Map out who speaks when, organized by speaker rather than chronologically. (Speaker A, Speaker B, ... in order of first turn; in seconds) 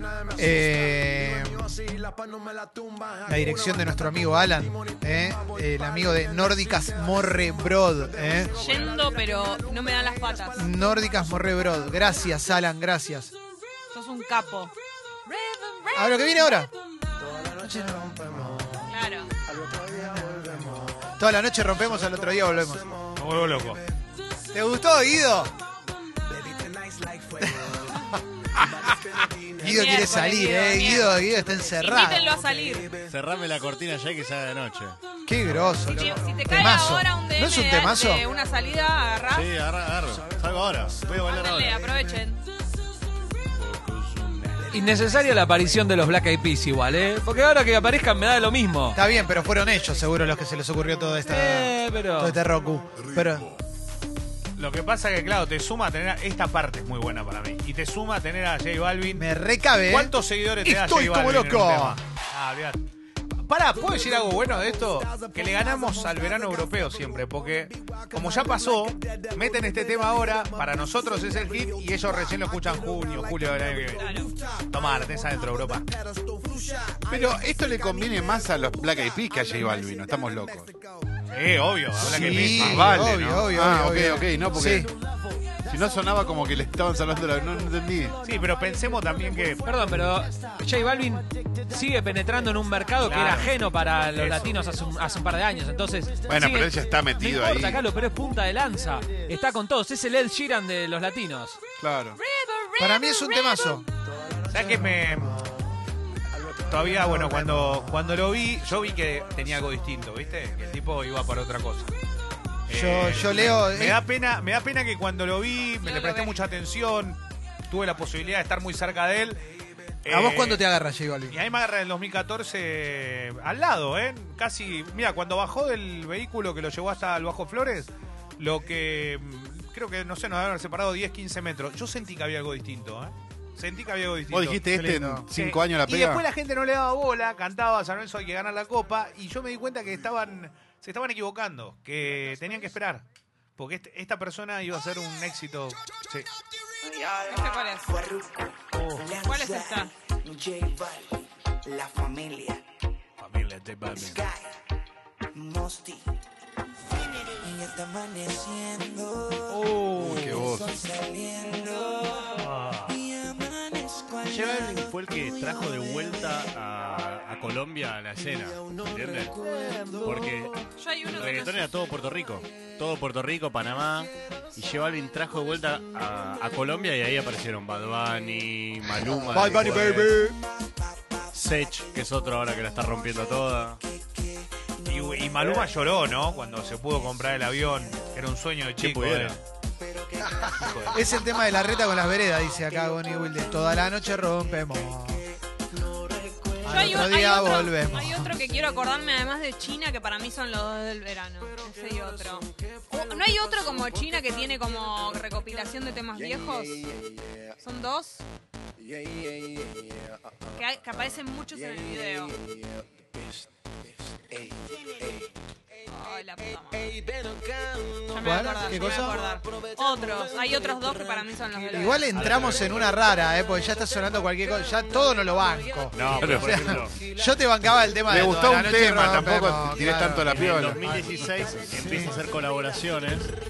Speaker A: 0.3-1.7, 3.3-8.6, 10.6-13.3, 15.9-16.7, 17.6-18.7, 19.9-22.9, 24.5-25.5, 27.4-28.1, 29.6-32.3, 35.3-38.2, 48.9-53.5, 59.2-60.1, 60.6-62.0, 82.0-84.9, 102.8-103.8, 106.9-108.0, 112.7-114.0, 120.1-121.4, 134.7-135.2, 179.3-180.4, 190.9-195.2, 196.6-198.3, 218.2-219.2, 221.7-230.4, 231.8-232.2
Speaker B: 8.6-10.6, 13.9-14.7, 15.3-16.4, 18.9-19.3, 29.7-31.2, 31.7-32.9, 35.9-39.5, 41.3-42.4, 74.0-74.3, 102.2-103.8, 115.8-116.4, 147.2-148.0, 149.1-149.9, 170.8-171.7, 196.7-206.9, 207.6-208.2, 210.6-212.4, 215.9-216.9, 218.1-222.1
Speaker C: 23.2-23.8, 54.6-59.3, 59.9-62.8, 63.4-75.9, 81.3-83.3, 88.2-89.6, 93.0-94.6, 104.5-105.4, 106.7-111.9, 112.7-119.4, 120.0-120.6, 121.3-134.6, 135.3-143.1, 143.6-146.3, 148.7-149.2, 153.2-154.2, 159.5-160.6, 162.3-163.0, 184.8-189.4, 190.4-191.1, 222.1-222.9
Speaker D: 33.0-35.0, 39.3-41.9, 43.5-44.7, 164.5-169.4, 170.0-180.1, 181.3-183.8, 188.8-189.4, 225.9-227.0, 230.2-233.3
Speaker E: 44.7-49.0, 51.3-52.4, 89.6-101.6
Speaker F: 77.1-80.7, 82.0-84.9, 85.7-88.2, 96.3-97.8, 101.8-102.2, 134.3-136.2, 160.0-160.8, 226.2-226.8, 228.1-231.6
Speaker G: 148.2-148.5, 150.3-151.0, 151.7-152.6, 155.4-156.0